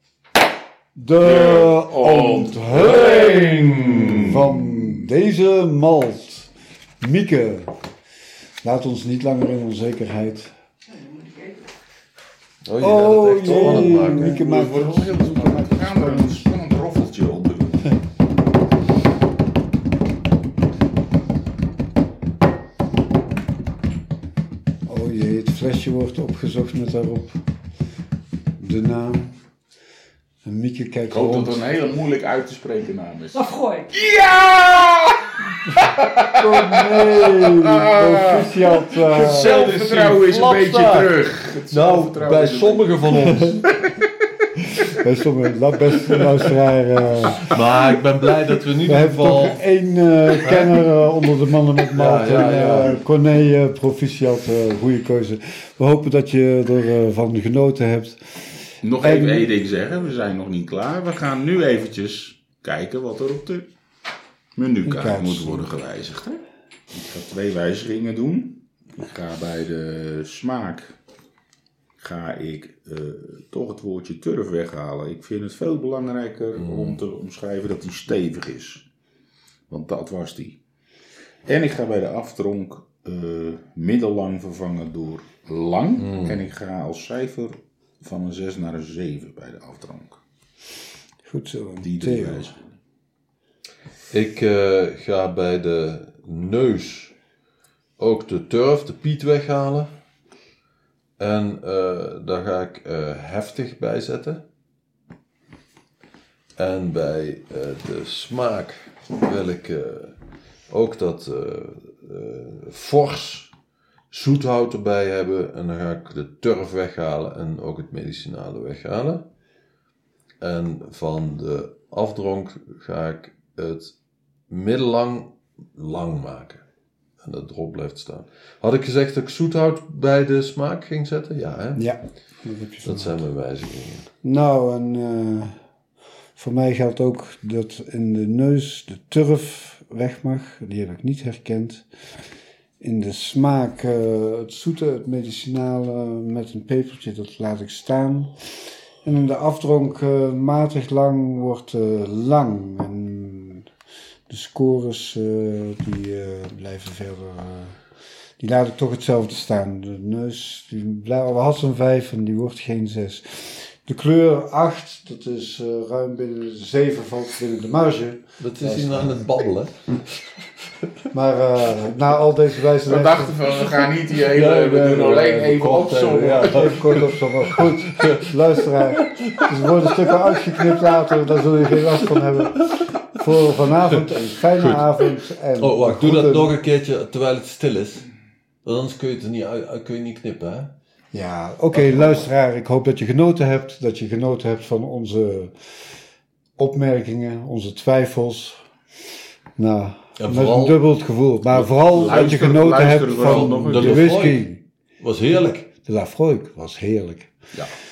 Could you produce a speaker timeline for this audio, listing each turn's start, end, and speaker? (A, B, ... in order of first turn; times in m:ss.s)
0:01.0-0:06.5 A
0:01.2-0:05.1 B
0:07.0-0:07.7 A
0:08.6-0:10.5 A
0:12.6-0:15.7 C
0:12.8-0:16.1 A
0:13.8-0:18.0 B
0:24.9-0:27.4 A
0:28.6-0:29.3 A
0:30.4-0:31.6 A
0:31.1-0:43.5 B
0:35.7-0:39.6 A
0:39.0-0:41.2 C
0:41.7-0:43.8 C
0:44.9-0:47.6 A
0:47.4-0:49.6 C
0:48.8-0:58.2 A
0:50.4-0:50.8 C
0:51.9-0:53.0 C
0:58.8-1:03.7 B
0:59.0-0:59.5 A
1:04.6-1:11.0 B
1:04.8-1:05.7 A
1:12.0-1:18.9 B
1:16.6-1:17.0 C
1:19.7-1:20.6 B
1:21.4-1:30.2 B
1:26.0-1:26.4 C
1:31.2-1:32.5 A
1:31.8-1:32.7 B
1:34.1-1:37.1 C
1:38.0-1:39.9 C
1:41.2-1:44.4 C
1:46.6-1:50.2 C
1:50.7-1:53.5 C
1:54.1-1:59.2 C
2:00.4-2:03.9 C
2:04.5-2:06.6 C
2:07.2-2:11.8 C
2:11.8-2:13.2 A
2:12.8-2:14.1 C
2:14.2-2:15.6 A
2:16.4-2:21.8 A
2:22.8-2:28.5 A
2:29.0-2:33.7 A
2:34.3-2:37.8 A
2:38.4-2:49.3 A
2:48.4-2:50.5 C
2:51.1-2:53.4 A
2:52.8-2:56.7 B
2:54.1-3:03.0 C
2:56.4-3:06.5 A
3:03.6-3:08.1 C
3:08.6-3:10.7 C
3:11.1-3:15.5 A
3:11.8-3:12.2 C
3:16.6-3:18.6 A
3:19.6-3:24.6 A
3:20.2-3:20.8 C
3:21.9-3:24.1 B
3:23.2-3:24.5 C
3:25.0-3:25.7 C
3:25.8-3:27.4 A